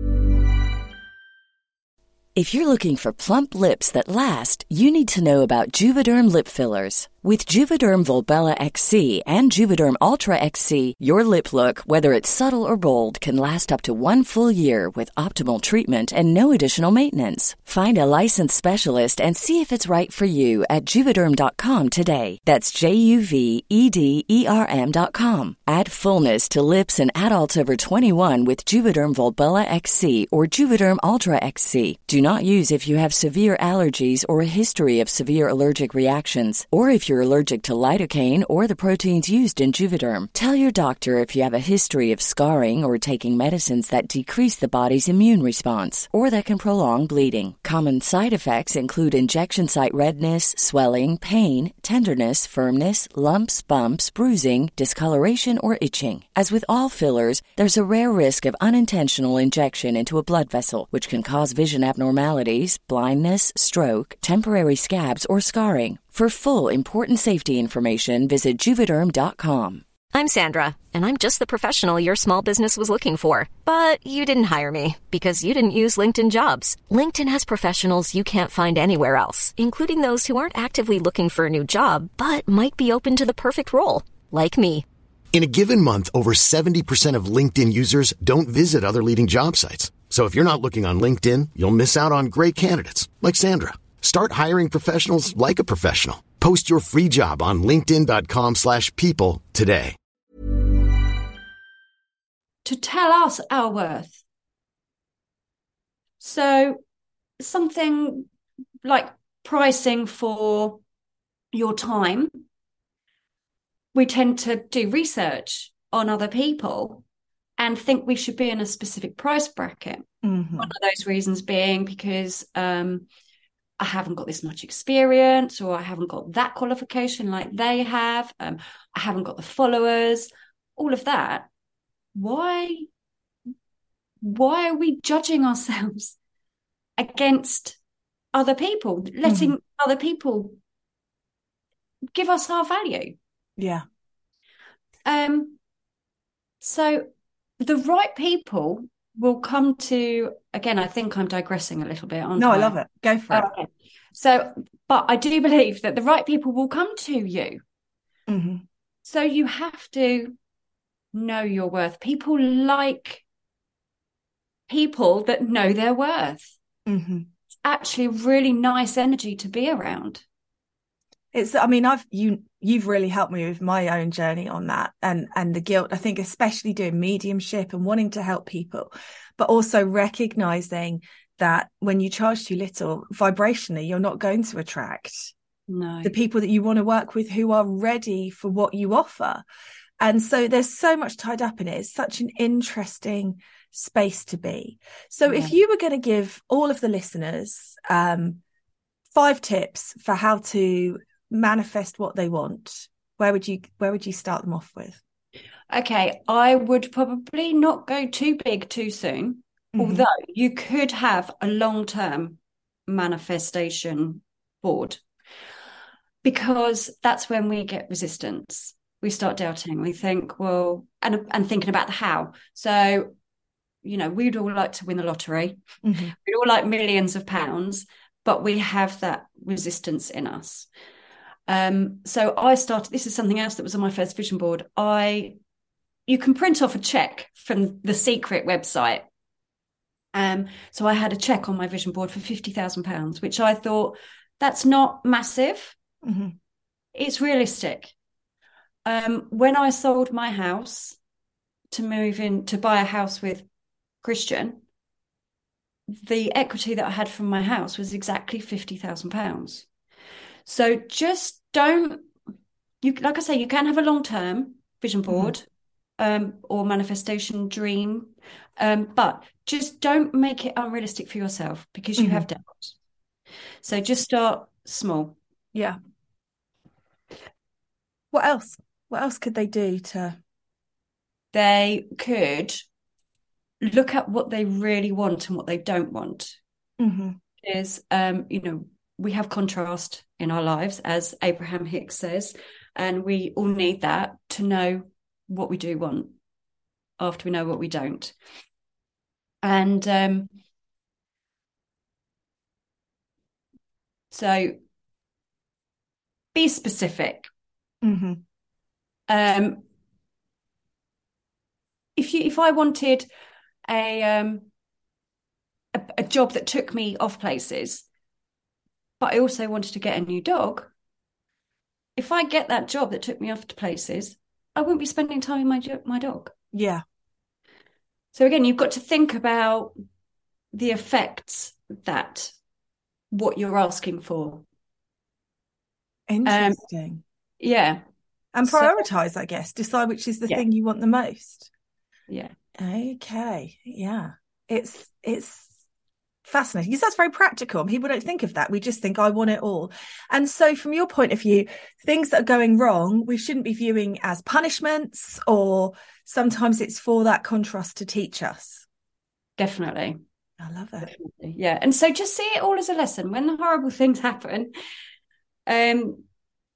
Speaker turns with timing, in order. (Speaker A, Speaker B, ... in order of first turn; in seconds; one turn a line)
Speaker A: 2.4-69.8
Speaker B: 70.1-84.8
Speaker C: 85.3-100.0
Speaker D: 102.7-104.2
Speaker D: 106.2-106.8
Speaker D: 107.4-108.3
Speaker D: 108.8-110.8
Speaker D: 111.5-112.4
Speaker D: 113.9-117.0
Speaker D: 117.6-120.1
Speaker E: 120.2-120.7
Speaker D: 120.6-123.1
Speaker D: 123.8-131.5
Speaker D: 132.2-132.9
Speaker D: 134.2-136.2
Speaker D: 137.0-137.8
Speaker D: 138.3-140.6
Speaker E: 139.2-139.5
Speaker D: 142.2-143.2
Speaker E: 143.6-143.8
Speaker D: 145.1-145.6
Speaker D: 146.6-147.1
Speaker D: 147.6-152.8
Speaker E: 152.4-153.5
Speaker D: 153.3-157.6
Speaker E: 158.3-158.6
Speaker D: 159.1-160.3
Speaker D: 161.1-163.2
Speaker D: 164.7-166.5
Speaker E: 166.9-167.3
Speaker D: 167.7-170.2
Speaker E: 171.3-185.3
Speaker D: 185.7-186.2
Speaker E: 186.0-189.4
Speaker E: 190.0-198.4
Speaker D: 195.3-195.6
Speaker E: 199.1-205.0
Speaker D: 205.7-215.0
Speaker E: 209.8-210.1
Speaker D: 216.2-223.1
Speaker D: 223.8-225.6
Speaker E: 225.8-226.1
Speaker D: 226.2-230.7
Speaker D: 231.5-235.4
Speaker D: 236.1-239.1
Speaker D: 240.1-245.8
Speaker E: 246.0-246.3
Speaker D: 246.9-247.9
Speaker D: 248.8-251.0
Speaker D: 251.7-253.4
Speaker D: 254.0-254.6
Speaker D: 255.9-259.7
Speaker D: 260.5-262.1
Speaker D: 262.8-265.5
Speaker D: 266.0-272.8
Speaker E: 272.0-272.3
Speaker D: 273.6-275.2
Speaker E: 278.1-280.2
Speaker D: 281.3-282.7
Speaker D: 283.6-286.4
Speaker E: 286.8-287.2
Speaker D: 287.4-296.2
Speaker D: 297.0-298.1
Speaker D: 299.4-300.3
Speaker D: 304.1-304.6
Speaker D: 306.4-307.3
Speaker E: 307.8-308.2
Speaker D: 309.1-309.6
Speaker D: 312.0-313.1
Speaker D: 313.7-314.5
Speaker D: 315.7-317.9
Speaker D: 319.0-320.7
Speaker D: 322.0-326.3
Speaker E: 326.5-326.8
Speaker D: 328.1-329.7
Speaker D: 330.5-332.3
Speaker D: 333.1-334.4
Speaker E: 336.1-337.0
Speaker D: 336.2-336.6
Speaker D: 337.4-337.8
Speaker E: 338.3-341.5
Speaker D: 338.4-338.9
Speaker D: 342.1-342.3
Speaker E: 342.6-345.5
Speaker E: 346.3-358.6
Speaker D: 359.4-360.0
Speaker E: 360.4-360.9
Speaker D: 360.8-364.5
Speaker D: 365.5-366.1